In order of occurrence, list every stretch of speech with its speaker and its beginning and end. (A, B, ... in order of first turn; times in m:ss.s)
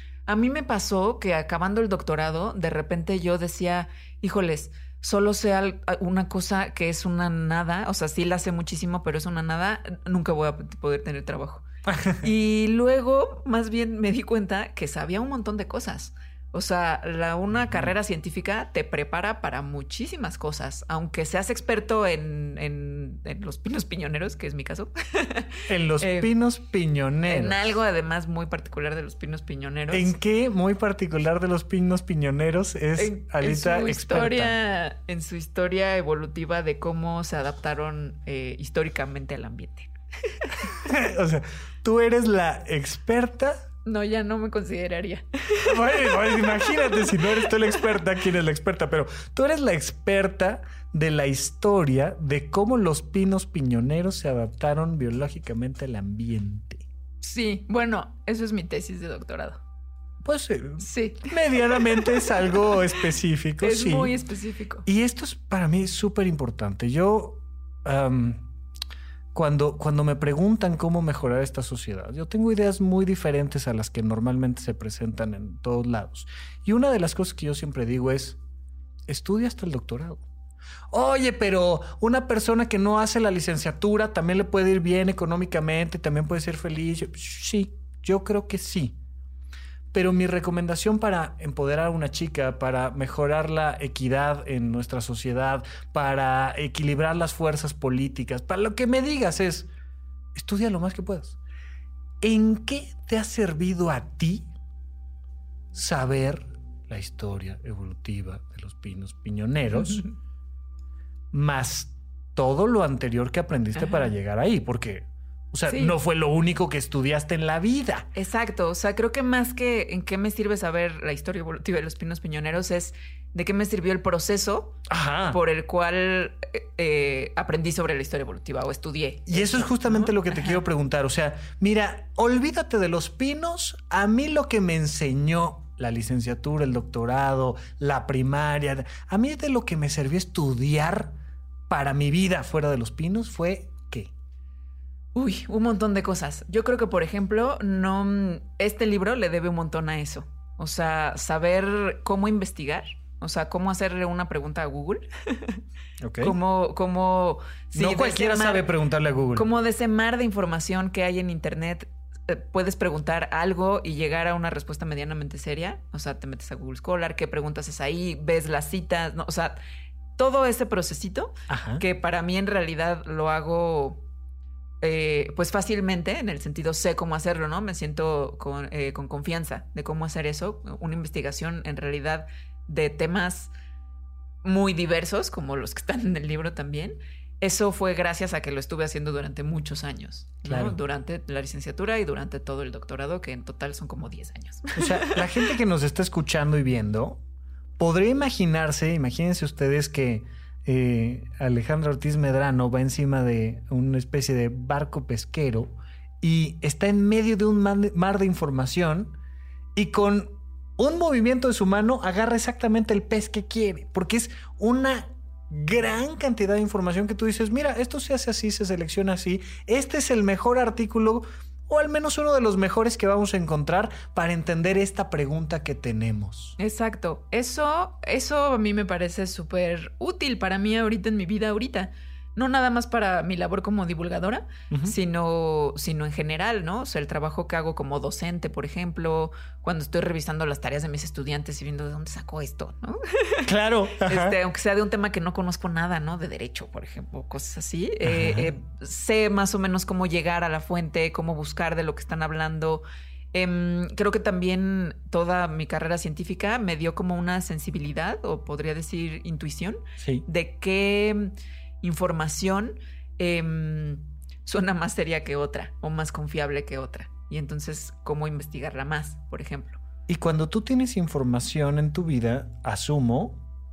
0:00.2-0:11.6 A
0:11.9-0:12.2 B
0:12.2-0:26.3 A
0:17.6-0:17.9 B
0:25.7-0:27.6 B
0:27.3-0:30.1 A
0:29.9-0:34.5 B
0:33.0-0:40.8 A
0:40.7-0:43.6 B
0:43.8-0:47.5 A
0:45.6-0:56.8 B
0:57.2-0:59.6 A
1:00.2-1:04.1 B
1:00.8-1:02.5 A
1:03.6-1:04.8 A
1:04.8-1:08.4 B
1:09.3-1:18.4 B
1:19.1-1:20.2 B
1:20.9-1:29.0 B
1:29.9-1:39.7 B
1:40.3-1:41.4 B
1:42.2-1:44.5 B
1:45.7-1:50.0 B
1:49.7-1:50.1 A
1:51.3-1:58.1 B
1:53.7-1:54.1 A
1:55.7-1:56.0 A
1:58.1-2:10.6 A
2:04.9-2:05.4 B
2:09.3-2:21.2 B
2:21.7-2:24.1 B
2:25.1-2:35.6 A
2:36.0-2:36.4 B
2:36.2-2:38.6 A
2:37.7-2:39.5 B
2:39.3-2:49.6 A
2:50.2-2:54.0 A
2:51.5-2:51.8 B
2:54.8-3:03.5 A
3:04.4-3:15.2 A
3:10.4-3:10.8 B
3:14.8-3:17.2 B
3:17.8-3:29.2 B
3:29.7-3:46.6 B
3:46.6-4:03.5 A
4:03.4-4:04.4 B
4:04.0-4:29.8 A
4:08.0-4:08.5 B
4:20.0-4:20.2 B
4:30.1-4:33.4 B